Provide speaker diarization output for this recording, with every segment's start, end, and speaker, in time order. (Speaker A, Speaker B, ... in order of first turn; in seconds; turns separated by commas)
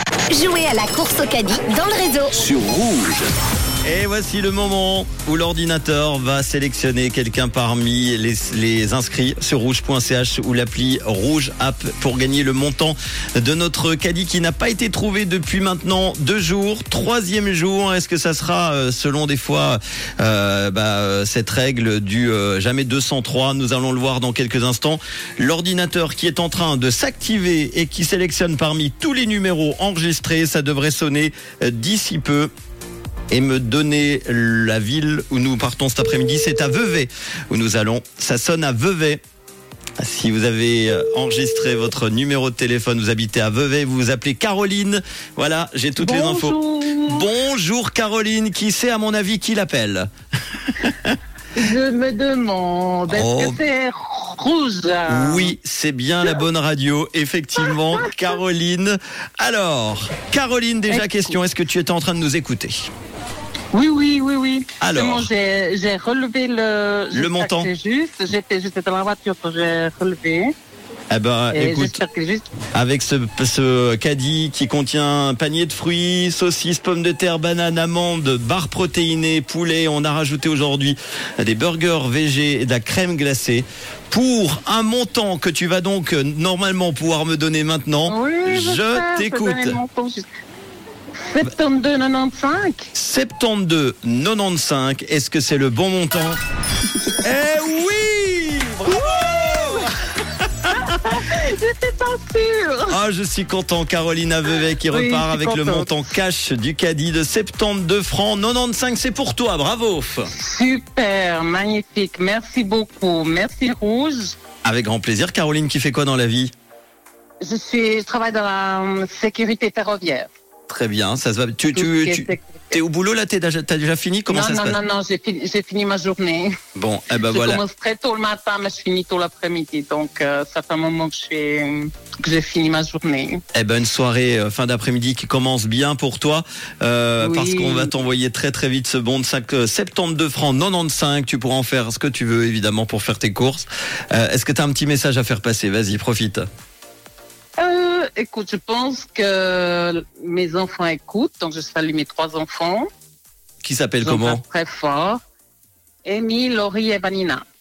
Speaker A: 0.3-2.4, Speaker B: 2.5-3.2, Speaker B: 3.9-32.5, Speaker B: 33.3-39.2, Speaker B: 40.0-50.1, Speaker C: 46.0-47.3, Speaker B: 50.6-51.2, Speaker C: 51.5-55.5, Speaker B: 53.1-53.6, Speaker B: 55.1-62.9, Speaker C: 57.6-58.3, Speaker C: 60.9-61.4, Speaker C: 63.7-70.5, Speaker B: 64.8-65.3, Speaker B: 67.1-67.7, Speaker B: 71.1-72.0, Speaker C: 71.5-72.5, Speaker B: 72.7-89.8, Speaker C: 88.1-90.3, Speaker C: 91.3-92.9, Speaker B: 92.9-96.4, Speaker B: 97.2-100.0, Speaker C: 98.9-100.0, Speaker B: 100.6-100.9, Speaker C: 100.7-103.0, Speaker B: 102.9-110.3, Speaker C: 104.8-106.1, Speaker C: 110.3-114.4, Speaker B: 114.6-116.5, Speaker C: 117.4-120.3, Speaker B: 120.7-124.8, Speaker C: 121.7-122.8, Speaker C: 124.3-126.5, Speaker B: 126.8-127.6, Speaker C: 127.2-133.4, Speaker B: 133.5-146.4, Speaker C: 137.2-137.9, Speaker C: 147.6-152.9, Speaker B: 153.6-154.4, Speaker C: 154.0-155.2, Speaker C: 156.1-157.4